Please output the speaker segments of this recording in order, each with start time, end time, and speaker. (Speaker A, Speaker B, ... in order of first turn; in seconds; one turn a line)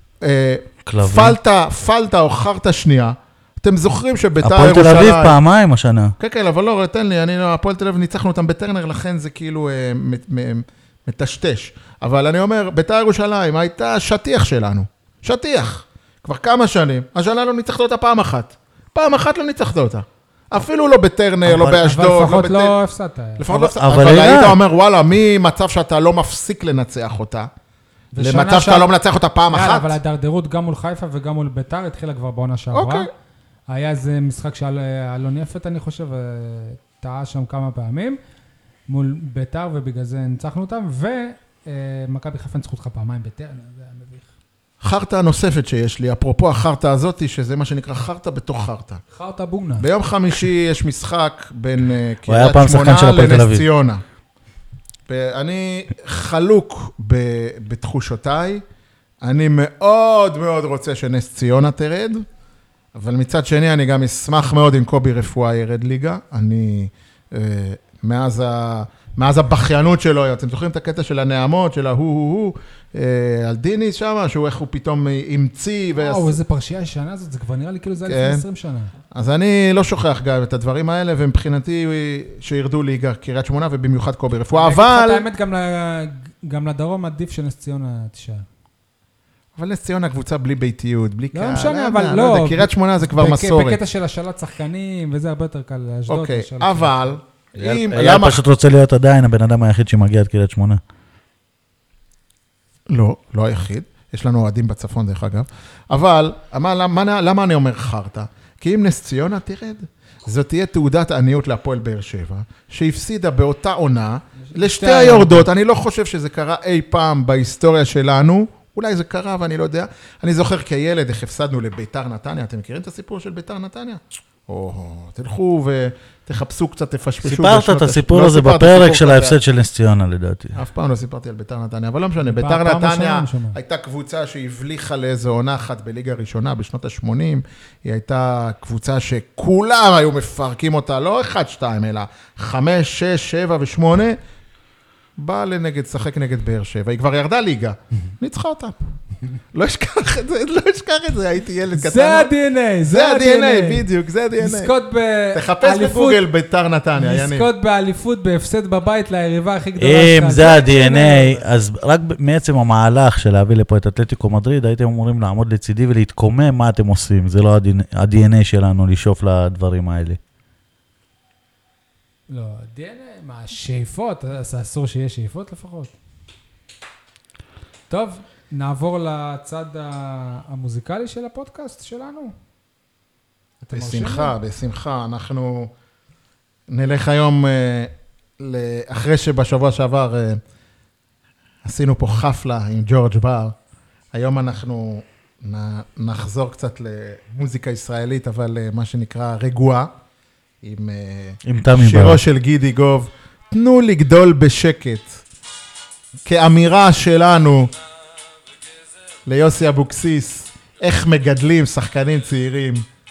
Speaker A: 0.2-5.4
Speaker B: 0.8-1.4
Speaker B: 4.4-6.2
Speaker A: 6.2-22.8
Speaker C: 21.4-23.5
Speaker A: 23.4-27.5
Speaker B: 23.5-24.6
Speaker C: 28.1-28.9
Speaker A: 28.2-30.0
Speaker C: 29.5-33.1
Speaker A: 32.7-33.1
Speaker C: 33.7-38.2
Speaker C: 38.9-44.3
Speaker A: 44.8-49.0
Speaker C: 49.1-49.9
Speaker A: 49.8-54.0
Speaker B: 52.3-53.6
Speaker A: 55.1-58.6
Speaker A: 59.2-62.2
Speaker A: 63.0-76.4
Speaker C: 76.0-78.9
Speaker A: 78.1-78.4
Speaker A: 79.1-85.2
Speaker C: 84.5-88.5
Speaker A: 89.6-93.8
Speaker C: 91.3-97.2
Speaker A: 96.1-98.4
Speaker B: 97.6-100.8
Speaker A: 102.9-129.4
Speaker C: 114.4-115.5
Speaker B: 127.2-130.6
Speaker A: 130.6-144.2
Speaker C: 132.2-133.6
Speaker A: 145.2-148.8
Speaker A: 149.5-152.3
Speaker C: 151.8-153.8
Speaker A: 152.9-154.7
Speaker C: 154.4-156.2
Speaker A: 155.3-157.5
Speaker C: 156.9-161.4
Speaker B: 159.8-170.2
Speaker C: 172.3-175.9
Speaker C: 177.9-182.3
Speaker C: 183.6-184.3
Speaker A: 183.7-185.7
Speaker A: 186.7-190.4
Speaker A: 191.7-193.6
Speaker A: 194.1-199.9
Speaker A: 200.6-205.2
Speaker B: 201.4-202.2
Speaker A: 206.3-207.7
Speaker A: 209.3-212.8